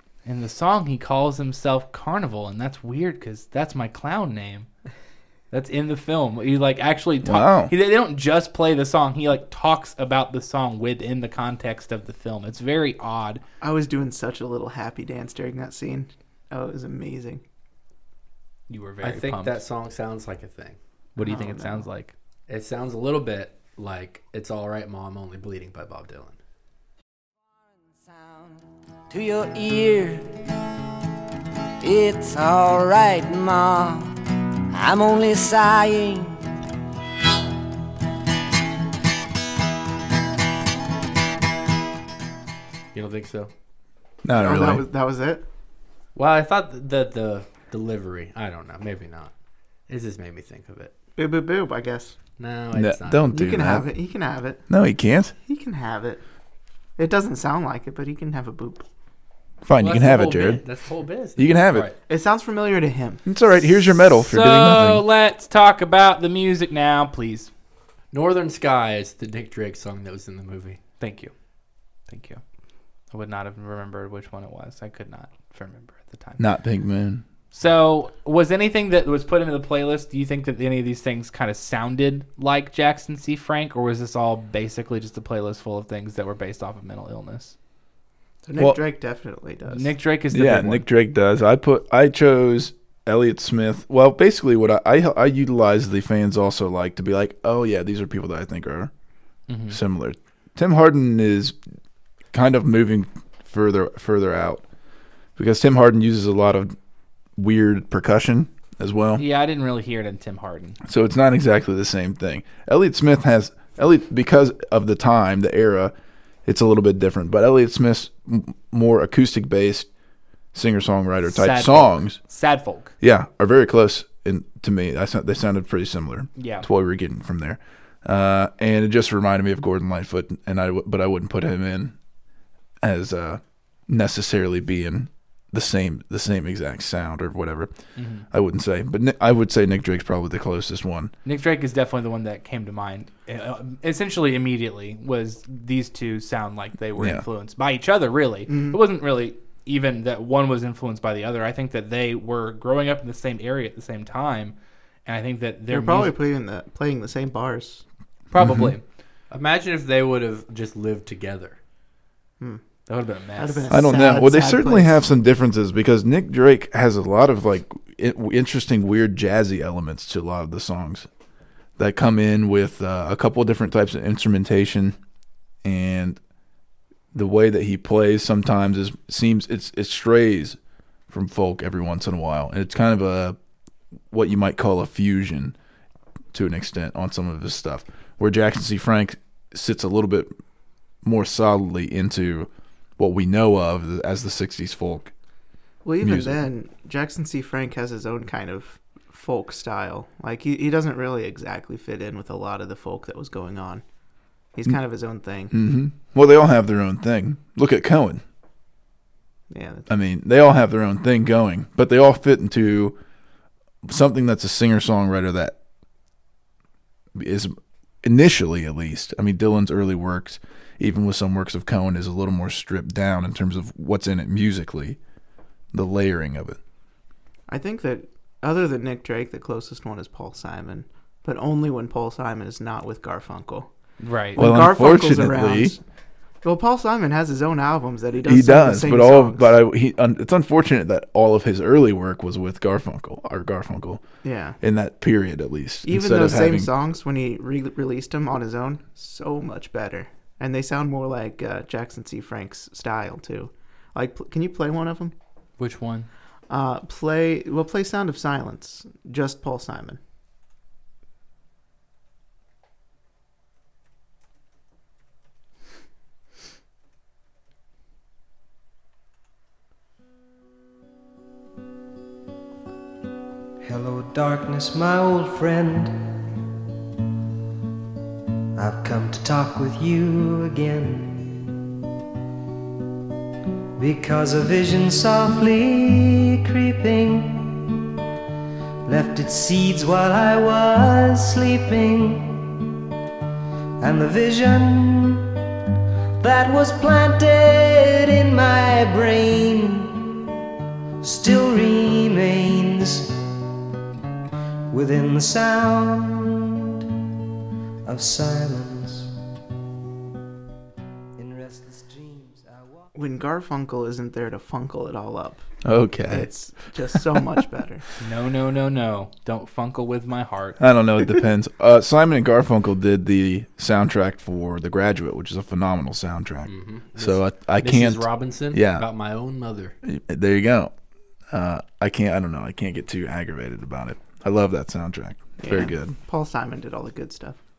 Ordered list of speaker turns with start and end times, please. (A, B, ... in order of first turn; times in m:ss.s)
0:00.2-0:04.7 A
0:05.5-0:13.4 A
0:07.2-0:07.7 B
0:13.6-0:17.4 C
0:18.7-0:19.6 A
0:19.0-0:20.8 D
0:21.2-0:22.1 A
0:21.2-0:21.8 C
0:22.5-0:26.4 D
0:27.5-0:30.3 E
0:31.8-0:34.1 E
0:34.7-0:36.4 E
0:42.9-0:43.5 D
0:44.2-0:44.8 B
0:44.4-0:45.4 C
0:46.1-0:49.3 D
0:49.9-0:50.9 D
0:51.2-0:52.2 C
0:52.4-0:53.3 D
0:52.7-0:53.9 B
0:53.3-0:54.6 C
0:54.7-0:55.3 B
0:55.4-0:56.2 C
0:57.0-0:58.8 C
0:59.6-1:00.6 B
0:59.8-1:02.0 D
1:01.4-1:01.9 B
1:02.1-1:03.2 C
1:03.2-1:05.0 B
1:04.2-1:07.5 A
1:08.1-1:10.8 D
1:11.0-1:11.3 A
1:12.1-1:12.4 A
1:13.1-1:16.4 A
1:16.4-1:17.2 B
1:17.5-1:27.5 A
1:28.4-1:30.0 C
1:29.7-1:30.8 A
1:30.3-1:38.9 B
1:39.5-1:39.8 A
1:39.7-1:41.6 B
1:42.3-1:44.6 B
1:45.4-1:46.7 B
1:47.4-1:49.2 B
1:49.2-1:50.8 A
1:50.8-1:55.9 B
1:56.4-1:59.9 B
2:00.5-2:02.2 B
2:01.2-2:02.9 A
2:03.0-2:11.9 B
2:06.4-2:06.6 A
2:12.8-2:17.7 B
2:18.0-2:18.3 A
2:18.3-2:21.1 B
2:21.2-2:36.1 A
2:27.0-2:27.2 B
2:28.5-2:28.8 C
2:35.7-2:37.8 C
2:38.3-2:38.8 A
2:38.4-2:38.8 B
2:39.3-2:41.6 D
2:42.9-2:43.7 A
2:43.4-2:45.0 C
2:43.7-2:51.1 B
2:51.8-2:55.0 B
2:55.6-2:56.2 B
2:57.1-3:00.6 B
3:01.1-3:03.4 B
3:04.1-3:05.5 B
3:06.3-3:10.3 B
3:11.0-3:15.1 B
3:15.8-3:23.8 C
3:16.0-3:16.4 B
3:24.5-3:25.5 C
3:25.5-3:28.2 B
3:29.5-3:29.9 C
3:29.9-3:33.0 B
3:33.8-3:35.6 B
3:37.1-3:45.0 B
3:45.7-3:46.6 B
3:47.5-3:53.7 C
3:54.0-3:54.4 A
3:54.3-3:55.8 C
3:54.4-3:55.8 B
3:56.4-3:59.5 C
3:58.2-4:04.0 B
4:04.2-4:04.6 C
4:04.6-4:06.7 B
4:05.8-4:15.1 C
4:15.6-4:16.1 A
4:16.5-4:20.0 C
4:33.6-4:36.0 F
4:38.6-4:41.4 F
4:43.8-4:47.7 F
4:48.8-4:52.6 F
4:53.8-4:55.3 F
4:56.2-5:00.2 F
5:01.0-5:03.2 F
5:04.7-5:06.7 F
5:07.8-5:09.1 F
5:11.2-5:12.9 F
5:12.9-5:15.4 C
5:15.6-5:16.3 B
5:16.1-5:17.8 C
5:16.9-5:17.2 B
5:18.0-5:20.6 A
5:20.6-5:28.8 B
5:26.5-5:29.7 D
5:29.8-5:30.7 B
5:31.3-5:36.0 B
5:35.4-5:37.4 C